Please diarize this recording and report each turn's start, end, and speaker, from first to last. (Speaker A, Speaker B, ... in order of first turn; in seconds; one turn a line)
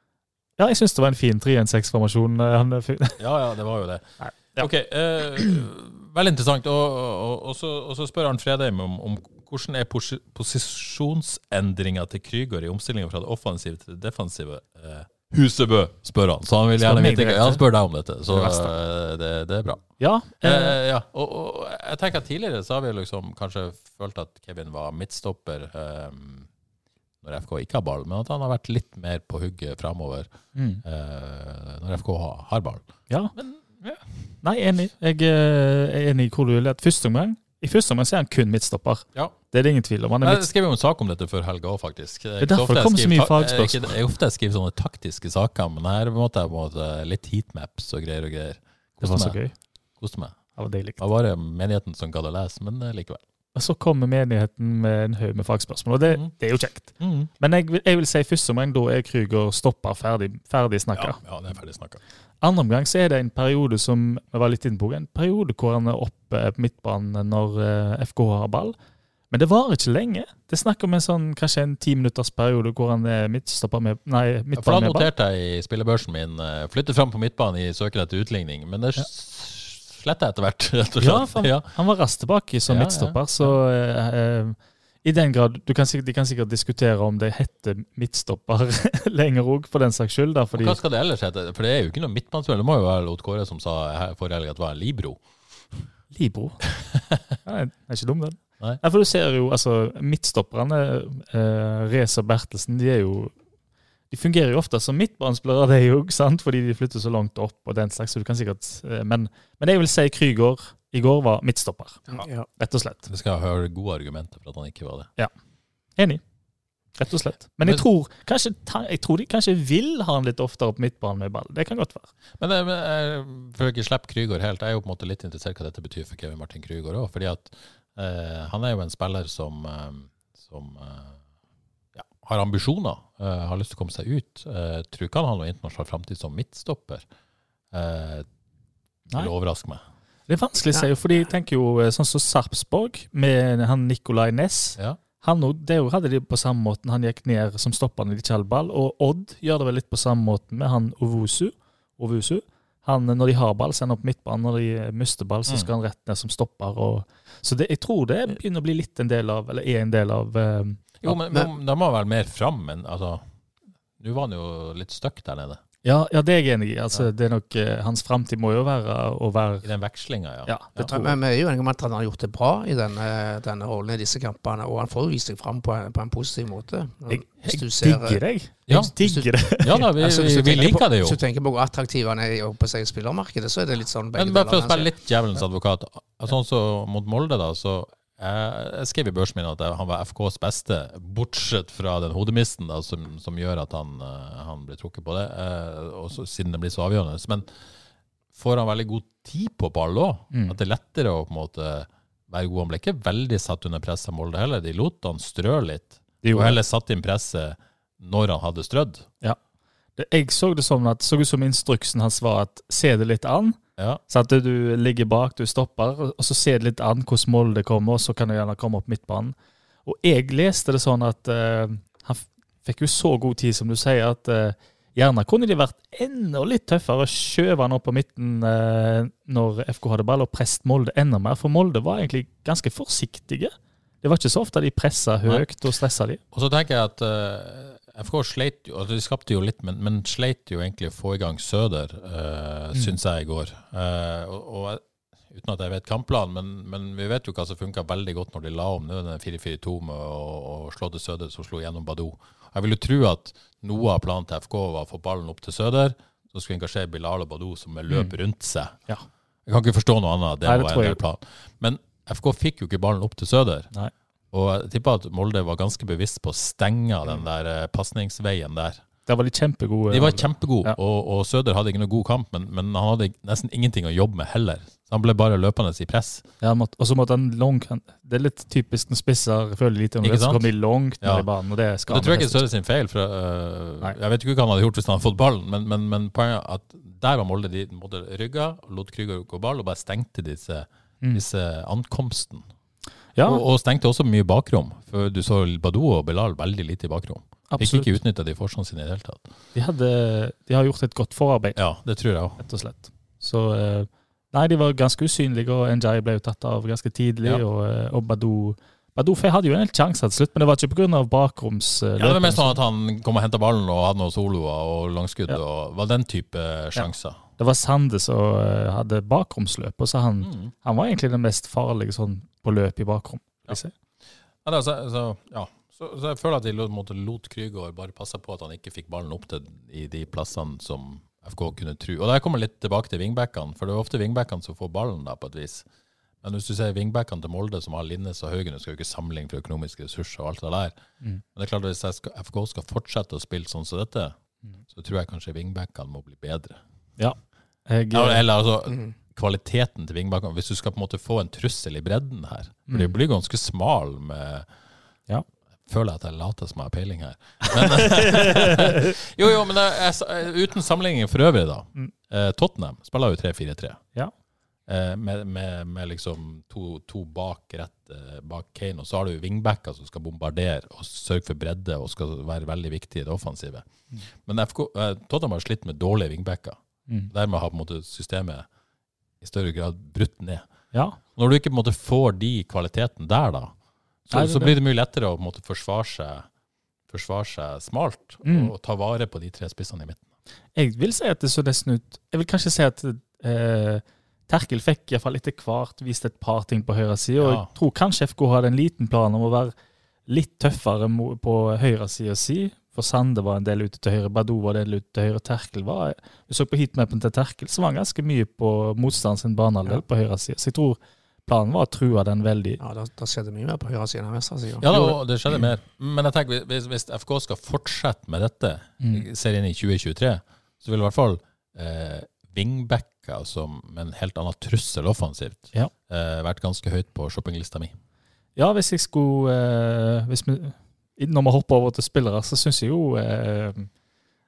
Speaker A: 0.6-3.2
Speaker B: 3.2-19.8
Speaker A: 4.2-4.7
Speaker A: 16.8-17.6
Speaker A: 18.3-18.7
Speaker A: 20.0-20.8
Speaker B: 20.4-26.5
Speaker B: 27.2-30.3
Speaker A: 30.5-30.8
Speaker B: 30.8-34.0
Speaker A: 33.1-33.3
Speaker A: 34.4-40.5
Speaker B: 40.2-49.4
Speaker A: 42.4-43.9
Speaker A: 49.0-49.5
Speaker B: 50.0-50.4
Speaker A: 50.6-51.0
Speaker B: 51.0-53.2
Speaker A: 53.5-61.2
Speaker B: 56.1-56.3
Speaker B: 57.0-57.3
Speaker B: 60.9-62.0
Speaker A: 62.4-68.7
Speaker A: 69.3-75.1
Speaker B: 74.5-81.7
Speaker A: 81.0-90.8
Speaker B: 82.7-83.5
Speaker B: 90.5-95.2
Speaker A: 96.1-96.6
Speaker B: 96.9-97.2
Speaker A: 97.4-103.3
Speaker A: 104.1-113.0
Speaker C: 112.1-112.5
Speaker B: 113.1-115.1
Speaker A: 117.0-122.1
Speaker B: 122.4-131.2
Speaker B: 131.9-137.0
Speaker B: 137.7-138.2
Speaker B: 139.1-139.8
Speaker A: 140.3-161.0
Speaker B: 161.0-163.2
Speaker B: 164.0-165.6
Speaker A: 165.8-169.7
Speaker B: 169.6-170.9
Speaker A: 170.4-171.1
Speaker C: 170.9-178.2
Speaker A: 177.1-179.8
Speaker B: 178.7-178.9
Speaker C: 179.0-179.3
Speaker B: 179.4-181.2
Speaker C: 179.9-184.9
Speaker B: 184.1-197.5
Speaker B: 198.3-209.1
Speaker A: 200.3-200.6
Speaker A: 206.2-206.6
Speaker A: 210.0-213.6
Speaker A: 214.1-236.2
Speaker B: 236.3-258.8
Speaker B: 259.4-263.7
Speaker A: 260.4-261.0
Speaker B: 264.3-268.8
Speaker A: 269.1-270.8
Speaker B: 269.9-276.2
Speaker A: 276.4-282.4
Speaker B: 280.0-280.5
Speaker B: 281.0-281.3
Speaker B: 281.9-292.4
Speaker A: 293.1-293.4
Speaker B: 293.2-299.2
Speaker A: 297.5-297.9
Speaker A: 299.5-301.6
Speaker B: 301.6-302.4
Speaker A: 302.4-312.6
Speaker B: 312.0-317.2
Speaker A: 316.8-323.7
Speaker B: 320.2-320.5
Speaker B: 324.4-335.6
Speaker B: 336.2-340.8
Speaker B: 341.3-344.1
Speaker B: 344.7-346.6
Speaker A: 347.7-348.2
Speaker B: 347.9-354.5
Speaker A: 352.7-352.9
Speaker B: 355.7-363.8
Speaker A: 357.7-358.9
Speaker B: 364.7-373.6
Speaker B: 374.2-376.6
Speaker B: 377.1-378.5
Speaker B: 379.2-380.4
Speaker A: 380.7-381.0
Speaker B: 381.1-383.5
Speaker B: 384.1-386.3
Speaker A: 384.1-384.5
Speaker B: 386.9-390.0
Speaker A: 388.2-388.5
Speaker A: 390.6-399.5
Speaker B: 397.2-397.5
Speaker A: 400.1-412.6
Speaker C: 412.6-414.8
Speaker B: 414.6-427.7
Speaker A: 418.8-419.1
Speaker A: 428.4-433.7